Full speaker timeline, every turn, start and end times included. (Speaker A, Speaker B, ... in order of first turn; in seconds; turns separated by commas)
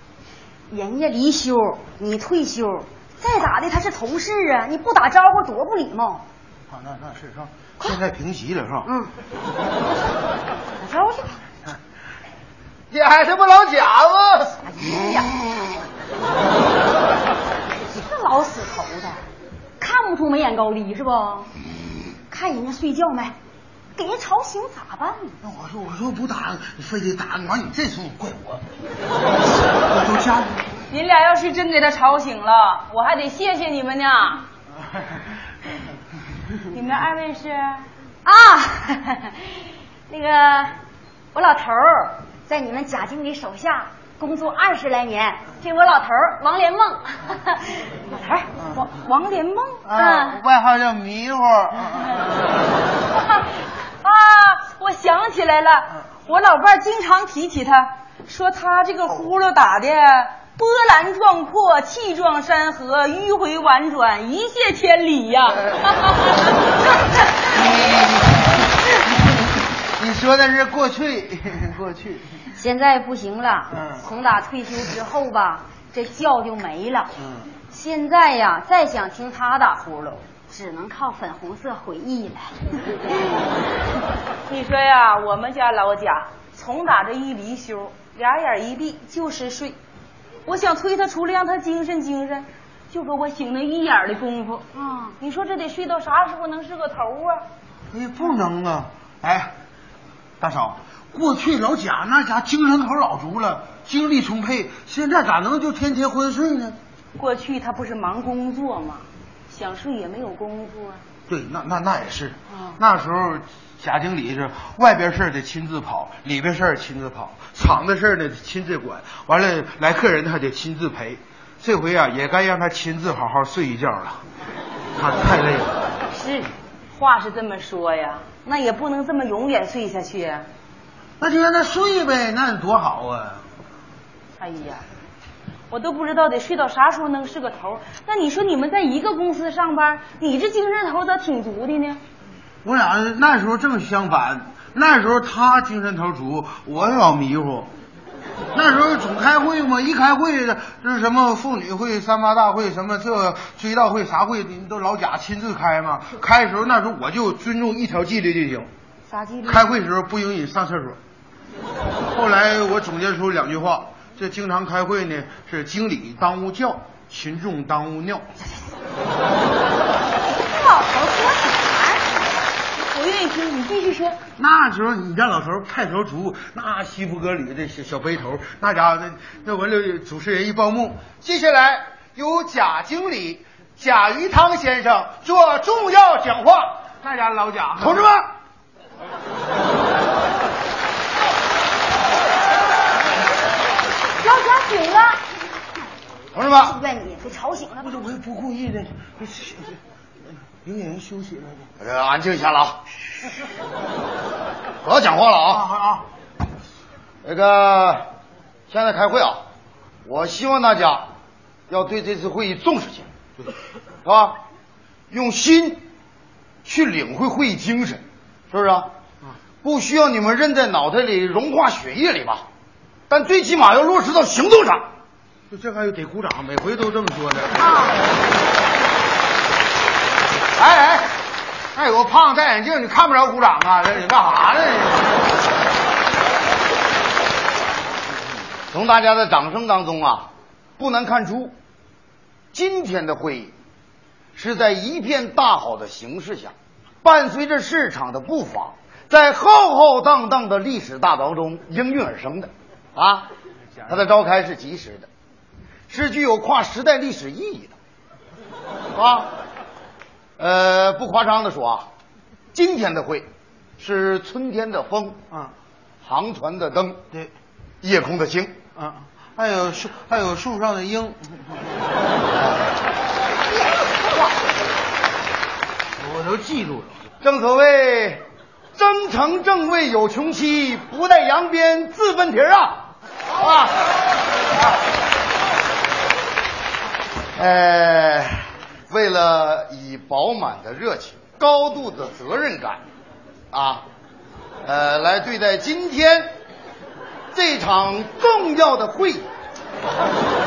Speaker A: 0.7-6.2, Speaker B: 6.7-8.9, Speaker A: 8.8-9.1, Speaker A: 10.8-11.4, Speaker C: 12.9-14.4, Speaker A: 14.7-15.4, Speaker A: 18.0-19.2, Speaker A: 19.8-21.5, Speaker A: 22.3-23.3, Speaker A: 24.0-25.4, Speaker B: 25.4-28.6, Speaker B: 29.9-30.6, Speaker D: 30.9-34.5, Speaker D: 36.7-37.9, Speaker A: 38.2-39.4, Speaker A: 40.1-40.8, Speaker A: 41.3-48.5, Speaker D: 48.7-49.8, Speaker B: 49.9-52.5, Speaker A: 50.0-50.4, Speaker D: 54.0-66.2, Speaker B: 67.5-72.3, Speaker A: 72.6-77.1, Speaker B: 73.7-74.0, Speaker B: 77.2-77.5, Speaker A: 77.7-82.5, Speaker D: 84.5-89.8, Speaker D: 90.5-94.7, Speaker A: 94.8-95.2, Speaker D: 95.2-97.4, Speaker B: 97.9-99.5, Speaker B: 100.4-106.8, Speaker D: 107.2-111.0, Speaker B: 111.3-124.2, Speaker D: 112.5-112.8, Speaker B: 125.0-125.8, Speaker D: 126.1-130.5, Speaker B: 131.2-133.4, Speaker D: 134.4-134.8, Speaker D: 135.7-142.0, Speaker B: 142.6-147.7, Speaker B: 148.5-158.7, Speaker D: 159.1-159.7, Speaker B: 159.4-161.0, Speaker B: 162.1-168.3, Speaker D: 170.4-172.0, Speaker D: 172.9-174.2, Speaker B: 174.4-188.1, Speaker C: 187.8-188.2, Speaker A: 194.2-194.8, Speaker D: 194.4-195.0, Speaker C: 196.3-196.8, Speaker A: 196.6-197.9, Speaker B: 197.8-199.8, Speaker B: 200.6-201.7, Speaker C: 201.8-202.8, Speaker C: 204.8-205.7, Speaker B: 205.5-206.1, Speaker C: 207.2-208.1, Speaker C: 208.7-209.4, Speaker C: 210.1-211.1, Speaker C: 211.7-213.1, Speaker C: 214.1-214.4, Speaker C: 215.1-215.8, Speaker C: 216.7-218.9, Speaker C: 219.6-222.4, Speaker C: 223.1-224.9, Speaker B: 225.5-227.6, Speaker C: 230.6-231.1, Speaker B: 231.7-235.2, Speaker C: 238.7-241.5, Speaker C: 242.5-243.5, Speaker C: 244.3-253.3, Speaker C: 253.9-255.1, Speaker C: 255.9-257.8, Speaker C: 258.9-259.3, Speaker C: 260.4-261.9, Speaker C: 262.5-263.3, Speaker C: 263.8-265.2, Speaker C: 266.0-267.0, Speaker C: 267.8-268.5, Speaker B: 268.8-271.6, Speaker C: 272.3-272.6, Speaker B: 276.0-277.0, Speaker C: 277.2-278.2, Speaker C: 278.8-283.8, Speaker C: 287.4-292.8, Speaker C: 293.5-293.9, Speaker C: 294.6-296.3, Speaker C: 297.3-299.3